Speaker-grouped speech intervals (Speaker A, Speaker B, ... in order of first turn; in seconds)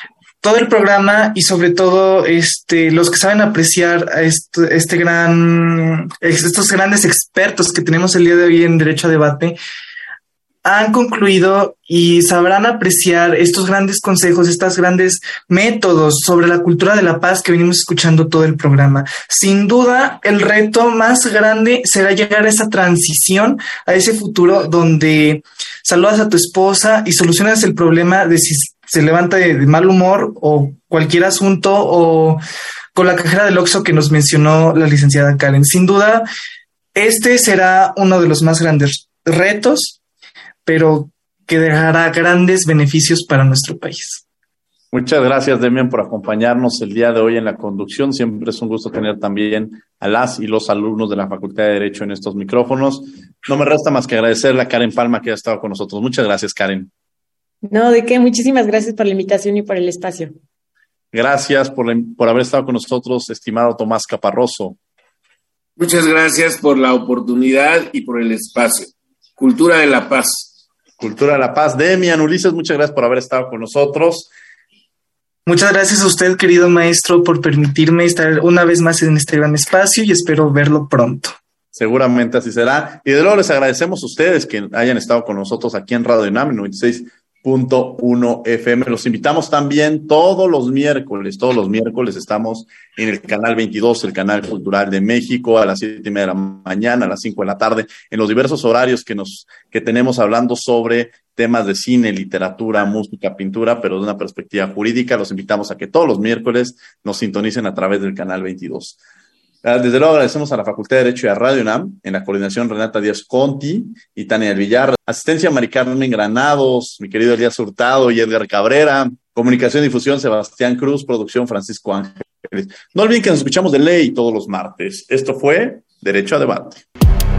Speaker A: 0.4-9.6, 10.7-32.4, 33.0-36.2, 37.0-40.0, 40.7-44.2, 75.5-81.3
Speaker B: 44.9-56.9, 61.1-64.8, 71.0-74.3, 81.7-109.0, 109.6-126.8
Speaker C: 57.6-60.3
Speaker D: 65.8-70.5